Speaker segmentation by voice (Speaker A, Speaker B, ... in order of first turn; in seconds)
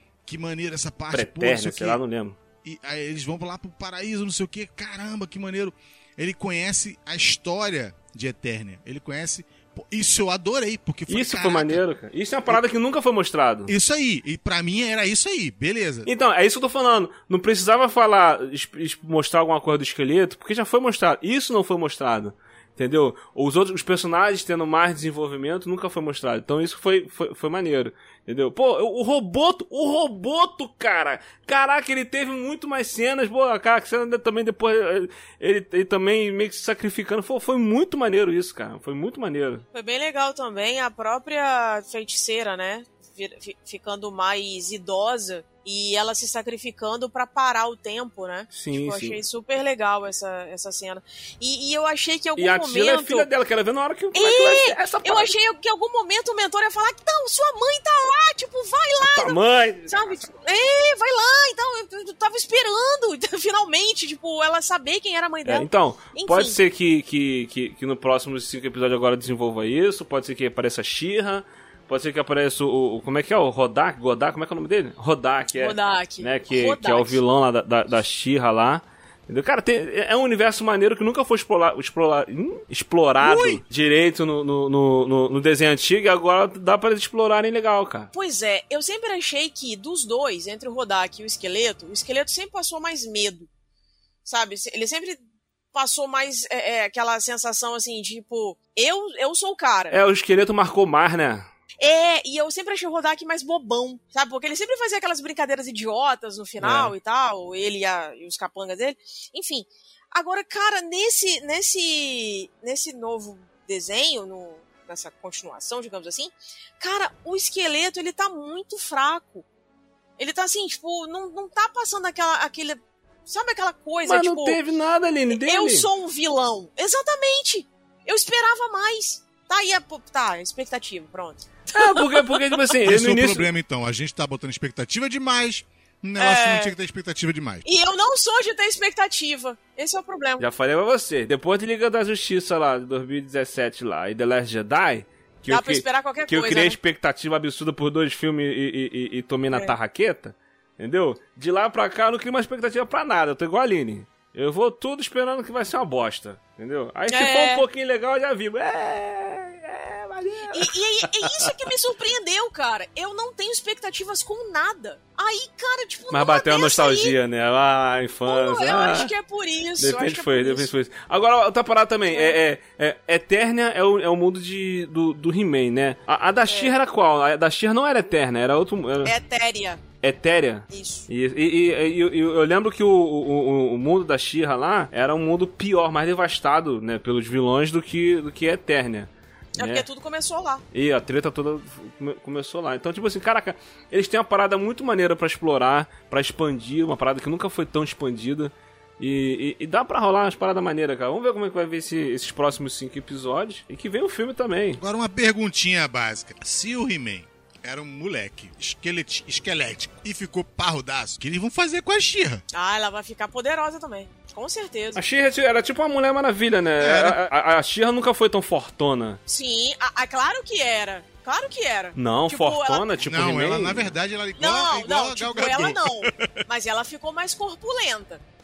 Speaker A: 0.3-2.0, 2.6-11.8, 13.7-16.1, 83.2-83.6, 132.8-137.7, 204.8-212.4, 216.8-217.2, 223.0-226.3
Speaker B: 1.1-2.4, 11.1-13.7, 16.1-39.6, 48.5-49.2, 52.4-55.3, 59.0-60.3, 65.5-88.1, 99.9-101.5, 106.6-107.0, 124.0-125.9, 131.7-133.5, 140.4-161.5, 166.1-169.1, 169.8-179.1, 180.0-189.9, 190.7-204.8, 214.9-219.2, 222.0-223.9
Speaker C: 39.7-53.3, 54.1-66.6, 75.5-77.2, 88.1-93.5, 94.2-95.2, 95.7-100.0, 101.8-119.5, 120.2-124.6, 125.3-132.4, 136.2-136.7, 137.7-140.4, 145.5-146.8, 157.1-157.7, 160.5-167.2, 168.3-170.7, 172.1-172.4, 176.5-176.7, 179.1-179.8, 180.7-181.1, 189.6-190.6, 212.5-215.0, 219.3-222.9, 224.4-228.2